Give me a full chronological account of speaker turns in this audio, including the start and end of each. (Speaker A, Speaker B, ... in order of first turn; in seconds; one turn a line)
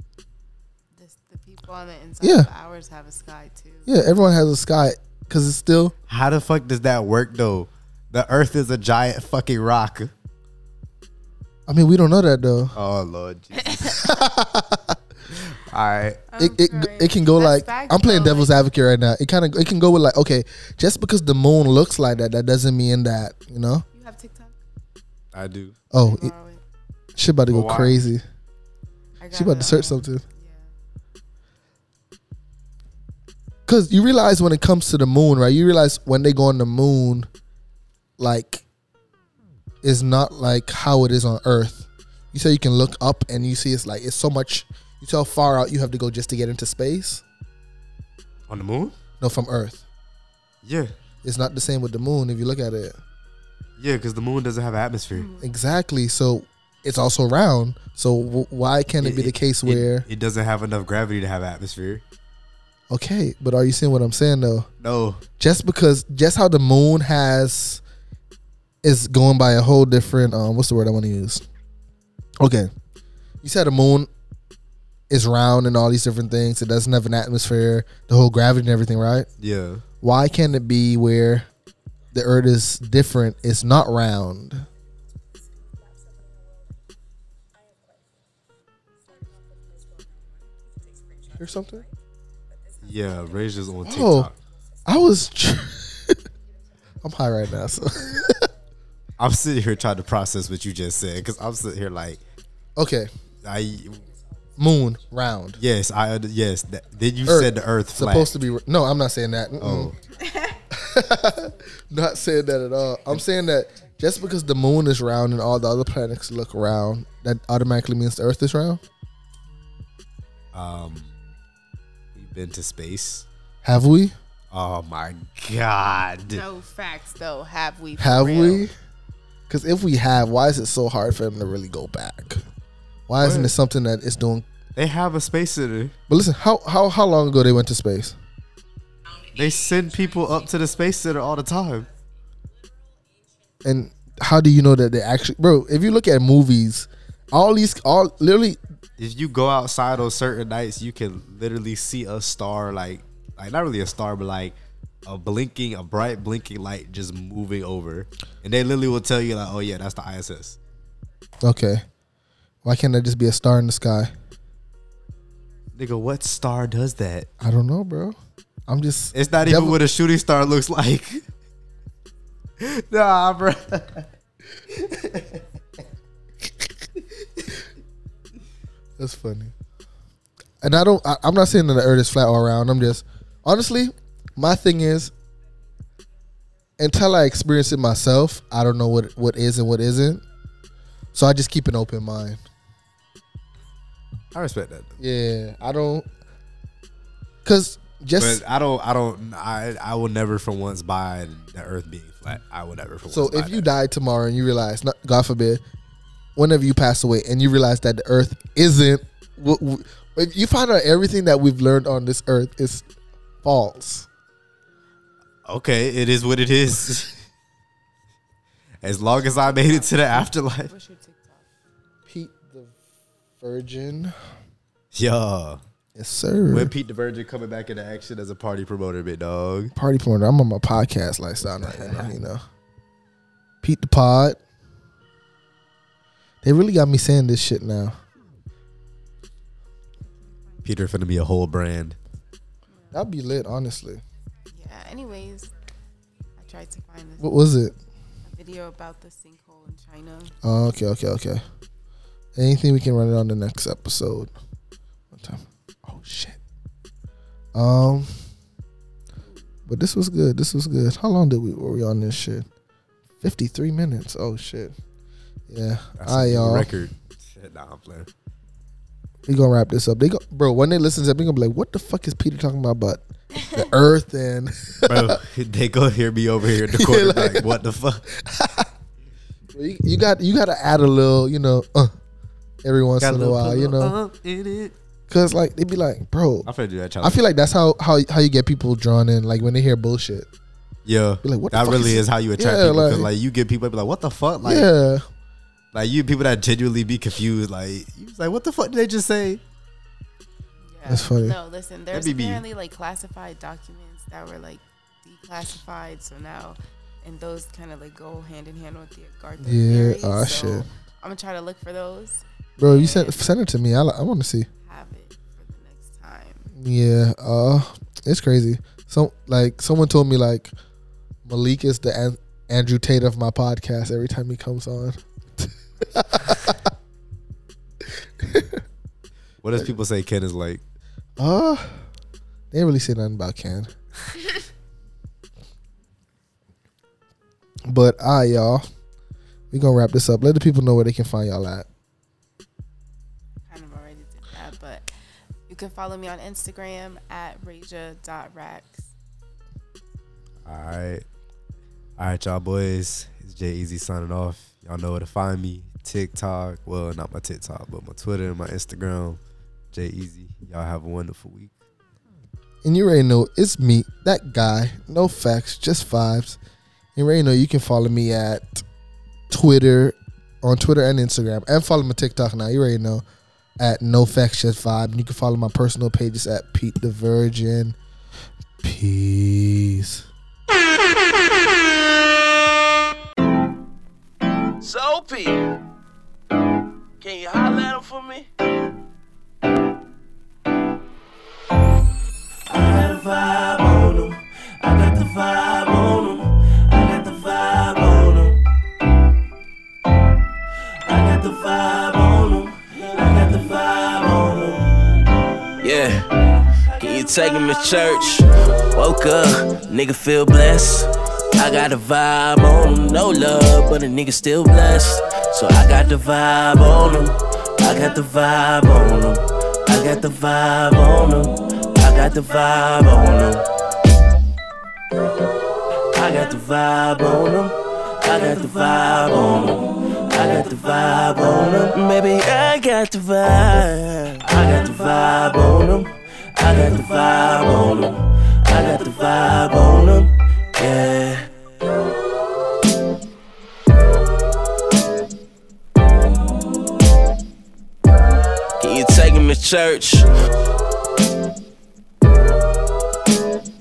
Speaker A: 0.9-4.1
Speaker B: 2.2-2.5
Speaker B: 3.9-6.0
Speaker C: 6.1-10.1
Speaker B: 11.7-12.8
Speaker C: 12.8-14.0
Speaker B: 13.9-14.9
Speaker C: 15.3-16.2
Speaker A: 16.3-18.6
Speaker B: 16.4-23.9
Speaker A: 23.9-24.6
Speaker C: 25.3-25.8
Speaker B: 25.9-26.3
Speaker A: 26.0-26.6
Speaker B: 27.2-28.2
Speaker C: 27.5-28.0
Speaker A: 29.2-30.7
Speaker B: 29.3-30.2
Speaker B: 33.7-37.3
Speaker B: 38.2-38.6
Speaker B: 39.8-47.2
Speaker C: 48.5-49.0
Speaker B: 49.2-49.8
Speaker C: 50.6-50.9
Speaker B: 51.2-53.0
Speaker C: 53.8-55.3
Speaker A: 55.2-55.4
Speaker B: 55.4-60.1
Speaker C: 59.0-62.0
Speaker B: 62.9-64.7
Speaker C: 64.8-65.2
Speaker B: 65.4-67.8
Speaker B: 68.8-71.5
Speaker B: 72.4-72.7
Speaker B: 73.4-74.1
Speaker B: 75.1-79.3
Speaker C: 79.4-79.8
Speaker B: 80.0-81.5
Speaker B: 82.1-84.7
Speaker B: 91.3-91.9
Speaker C: 92.8-94.4
Speaker B: 93.8-94.3
Speaker B: 94.9-96.3
Speaker B: 97.0-98.5
Speaker C: 99.2-102.2
Speaker B: 102.8-103.1
Speaker C: 103.4-104.0
Speaker B: 104.6-105.6
Speaker C: 105.6-108.3
Speaker B: 107.3-110.0
Speaker C: 109.6-110.0
Speaker A: 110.2-110.6
Speaker B: 110.7-118.8
Speaker C: 120.5-121.1
Speaker C: 122.2-123.3
Speaker B: 123.6-124.1
Speaker C: 124.5-126.4
Speaker A: 126.3-128.7
Speaker B: 128.0-128.7
Speaker B: 129.5-132.4
Speaker B: 133.1-134.5
Speaker C: 133.2-133.5
Speaker C: 134.8-135.9
Speaker B: 136.1-138.2
Speaker C: 139.3-141.9
Speaker B: 143.6-148.6
Speaker C: 149.0-160.6
Speaker B: 161.4-161.9
Speaker B: 162.6-164.1
Speaker C: 165.8-167.3
Speaker B: 167.4-169.8
Speaker C: 169.1-171.2
Speaker C: 172.6-174.1
Speaker C: 174.7-175.4
Speaker B: 179.0-179.5
Speaker B: 180.6-185.1
Speaker B: 186.8-190.2
Speaker B: 191.1-192.4
Speaker C: 194.3-195.0
Speaker B: 195.0-196.1
Speaker B: 197.4-198.4
Speaker C: 198.2-203.7
Speaker B: 203.1-205.6
Speaker B: 206.4-212.8
Speaker B: 213.4-214.1
Speaker C: 215.4-217.2
Speaker C: 218.8-220.7
Speaker A: 219.1-221.5
Speaker B: 222.1-222.8
Speaker B: 223.4-224.1
Speaker C: 224.9-225.6
Speaker B: 225.9-226.7
Speaker C: 226.5-229.7
Speaker B: 229.8-232.4
Speaker C: 231.6-232.1
Speaker B: 233.6-234.4
Speaker B: 236.4-238.0
Speaker C: 240.6-242.0
Speaker A: 242.7-243.0
Speaker B: 242.9-244.0
Speaker A: 244.5-245.5
Speaker A: 246.4-247.3
Speaker B: 247.2-247.8
Speaker A: 248.2-250.3
Speaker B: 250.4-251.4
Speaker B: 252.4-254.3
Speaker B: 255.1-256.4
Speaker B: 257.5-258.2
Speaker B: 259.7-262.5
Speaker B: 263.2-264.8
Speaker B: 265.5-266.7
Speaker C: 266.0-268.1
Speaker B: 269.3-275.2
Speaker C: 274.9-278.1
Speaker B: 276.7-277.6
Speaker B: 278.1-278.7
Speaker B: 279.5-281.9
Speaker B: 282.6-283.9
Speaker C: 283.0-284.8
Speaker B: 285.1-286.5
Speaker C: 286.5-287.2
Speaker B: 287.0-290.3
Speaker C: 290.9-294.7
Speaker B: 291.2-293.1
Speaker B: 294.4-295.1
Speaker C: 295.7-299.4
Speaker A: 300.6-313.3
Speaker B: 300.9-301.4
Speaker C: 301.9-302.4
Speaker B: 309.4-310.7
Speaker B: 312.6-314.5
Speaker A: 314.6-316.5
Speaker B: 316.6-320.5
Speaker B: 321.2-326.7
Speaker B: 327.8-328.6
Speaker C: 329.4-330.6
Speaker B: 331.2-331.9
Speaker B: 332.5-333.7
Speaker B: 337.7-338.6
Speaker B: 339.5-341.7
Speaker A: 343.5-344.9
Speaker A: 345.5-348.9
Speaker C: 350.4-351.0
Speaker C: 352.0-359.2
Speaker C: 359.7-361.5
Speaker B: 362.6-366.4
Speaker B: 367.0-368.6
Speaker B: 369.3-373.0
Speaker B: 373.6-377.8
Speaker B: 378.6-380.1
Speaker D: 384.6-385.5
Speaker D: 387.0-388.3
Speaker D: 392.5-398.4
Speaker D: 400.8-405.1
Speaker D: 405.6-423.5
Speaker D: 425.9-441.3
Speaker D: 448.6-450.1